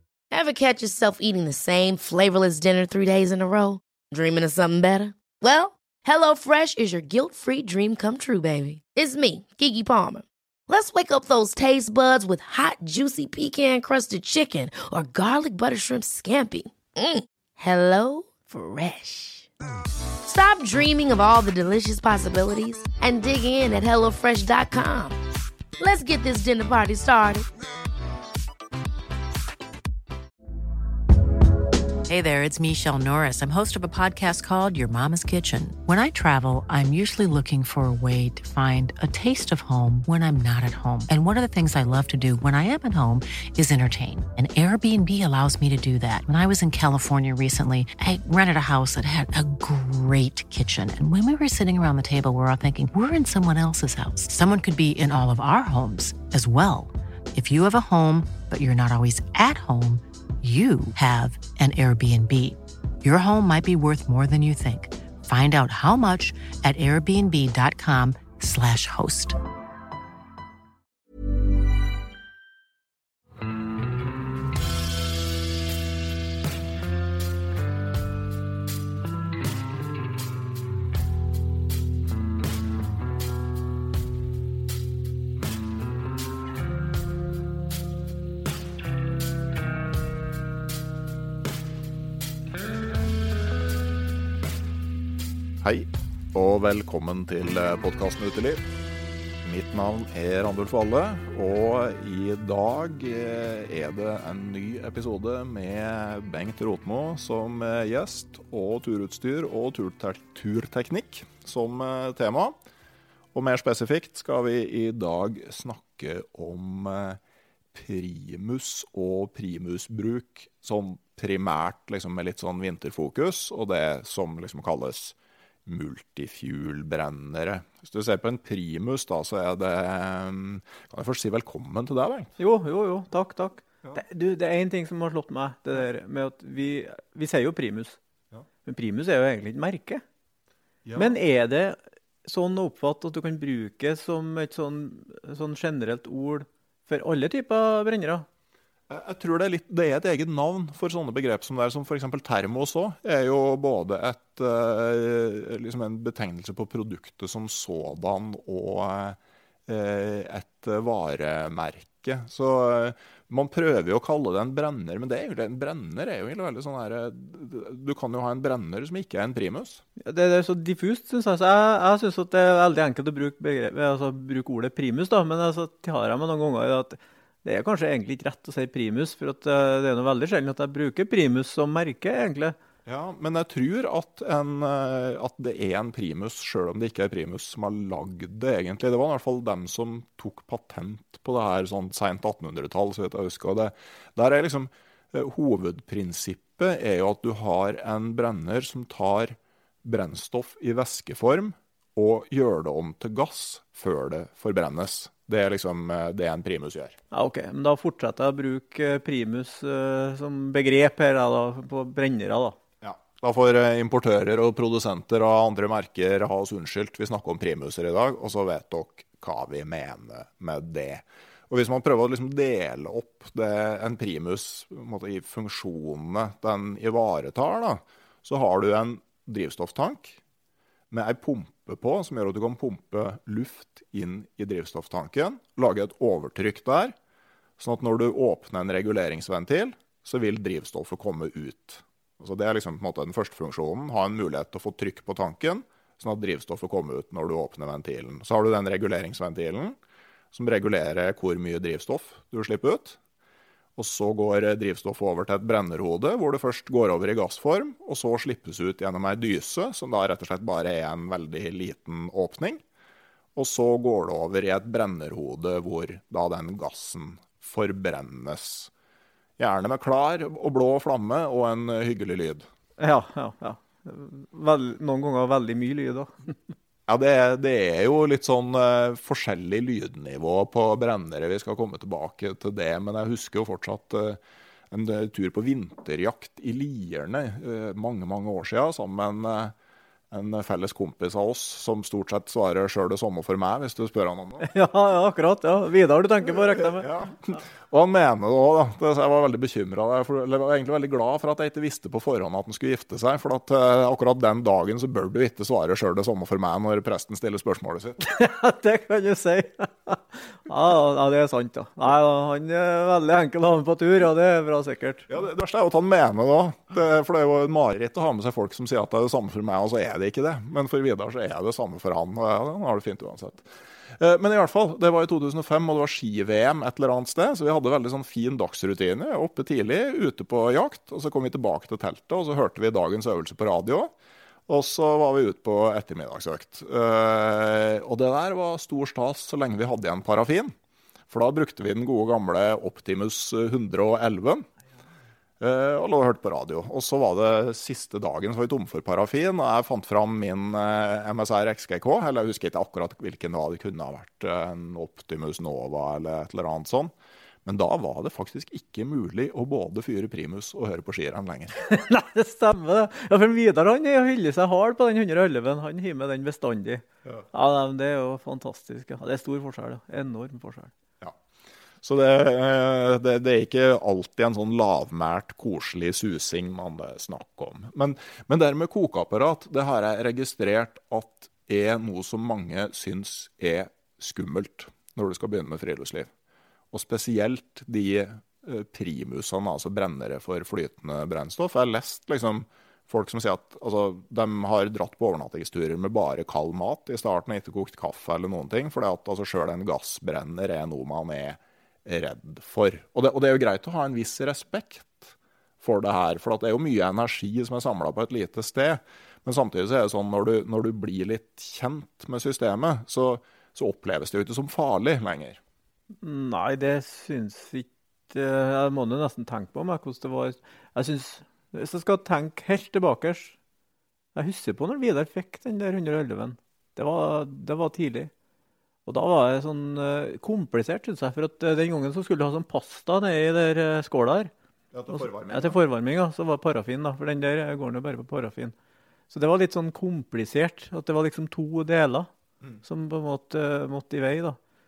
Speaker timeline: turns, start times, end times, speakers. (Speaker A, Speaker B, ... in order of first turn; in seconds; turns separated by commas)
Speaker A: 0.3-19.5, Speaker A: 20.3-25.2, Speaker A: 25.8-27.5, Speaker B: 32.1-69.4, Speaker C: 95.6-98.6, Speaker C: 99.4-112.5, Speaker C: 113.3-117.2, Speaker C: 117.7-132.3, Speaker D: 132.4-138.0, Speaker D: 138.6-140.0, Speaker C: 140.8-141.2, Speaker D: 141.0-148.3, Speaker C: 148.9-169.8, Speaker D: 170.0-182.6, Speaker C: 182.9-207.0, Speaker D: 207.1-212.6, Speaker C: 212.8-230.2, Speaker C: 230.9-236.9, Speaker C: 237.6-249.8, Speaker C: 250.3-253.0, Speaker C: 253.8-262.6, Speaker C: 263.4-268.7, Speaker C: 269.4-272.5, Speaker D: 272.8-276.3, Speaker C: 276.9-284.2, Speaker C: 284.7-289.6, Speaker C: 290.1-294.5, Speaker D: 294.4-296.9, Speaker C: 296.3-308.0, Speaker D: 308.0-315.1, Speaker C: 315.1-333.9, Speaker C: 334.5-340.5, Speaker C: 341.1-344.5, Speaker C: 345.4-356.9, Speaker C: 357.4-361.6, Speaker D: 361.6-370.7, Speaker C: 371.8-386.1, Speaker C: 386.7-415.4, Speaker D: 416.0-423.4, Speaker D: 424.1-428.1, Speaker D: 428.9-434.3, Speaker C: 434.7-435.6, Speaker D: 434.9-438.6, Speaker D: 439.1-442.1, Speaker D: 442.6-444.4